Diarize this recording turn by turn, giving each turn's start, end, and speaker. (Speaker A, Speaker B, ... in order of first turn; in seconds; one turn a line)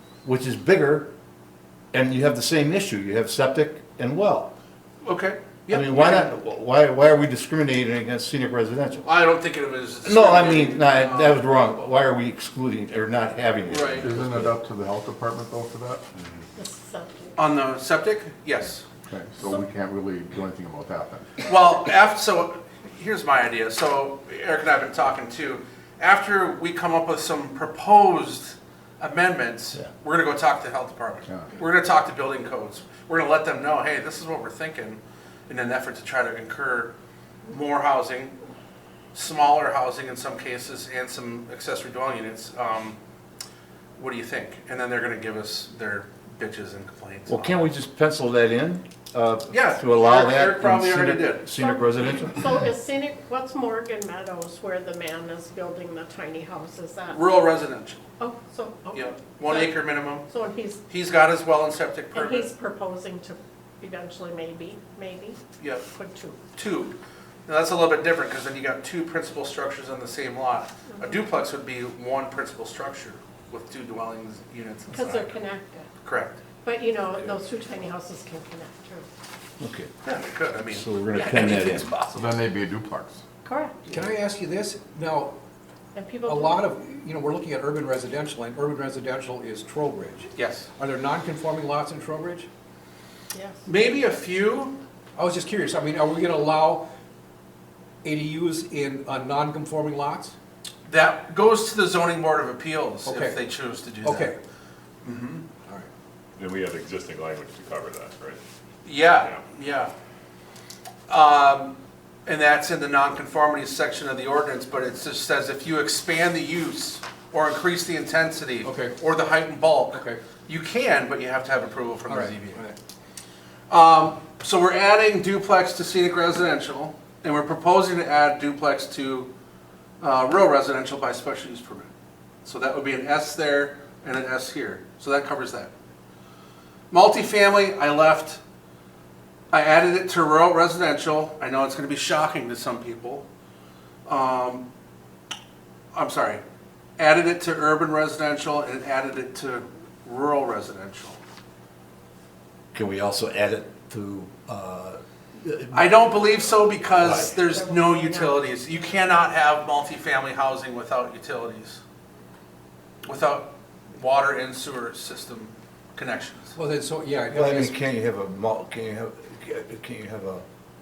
Speaker A: 0.2-1.1
Speaker A: 1.9-4.5
Speaker B: 5.0-6.3
Speaker A: 5.7-9.1
Speaker B: 9.0-11.4
Speaker A: 10.0-14.5
Speaker B: 13.7-14.1
Speaker C: 14.0-16.0
Speaker D: 16.6-17.3
Speaker B: 17.4-18.8
Speaker C: 19.1-21.3
Speaker B: 21.4-36.9
Speaker B: 37.5-38.3
Speaker B: 39.1-43.0
Speaker B: 44.0-47.7
Speaker A: 47.3-52.5
Speaker B: 49.5-51.5
Speaker D: 52.3-57.2
Speaker B: 57.1-58.0
Speaker D: 58.2-60.8
Speaker B: 58.9-60.3
Speaker B: 60.9-62.5
Speaker D: 62.1-66.4
Speaker B: 65.6-65.8
Speaker B: 66.5-67.0
Speaker B: 67.5-75.4
Speaker D: 71.0-71.2
Speaker D: 74.9-75.9
Speaker B: 76.0-76.4
Speaker D: 76.6-79.0
Speaker A: 79.6-79.9
Speaker B: 80.0-82.3
Speaker A: 80.7-81.9
Speaker C: 82.1-83.2
Speaker D: 83.4-83.9
Speaker E: 83.9-85.3
Speaker D: 85.9-86.6
Speaker E: 86.2-92.5
Speaker B: 90.3-90.7
Speaker D: 93.3-93.7
Speaker B: 93.6-94.8
Speaker E: 95.2-96.8
Speaker E: 98.0-100.3
Speaker B: 100.9-104.3
Speaker E: 103.0-104.4
Speaker B: 105.0-105.4
Speaker F: 106.4-108.4
Speaker B: 108.8-109.9
Speaker B: 111.1-111.7
Speaker B: 112.2-122.6
Speaker E: 118.6-119.0
Speaker E: 119.9-120.2
Speaker E: 122.1-122.8
Speaker B: 123.7-129.3
Speaker B: 130.0-131.9
Speaker B: 132.4-135.7
Speaker B: 136.9-138.4
Speaker B: 139.5-143.2
Speaker B: 144.1-144.7
Speaker B: 145.9-146.4
Speaker B: 147.0-151.2
Speaker A: 152.7-156.0
Speaker B: 155.7-161.8
Speaker A: 157.0-157.3
Speaker D: 157.2-158.4
Speaker B: 163.1-166.6
Speaker E: 166.6-167.8
Speaker A: 167.3-170.4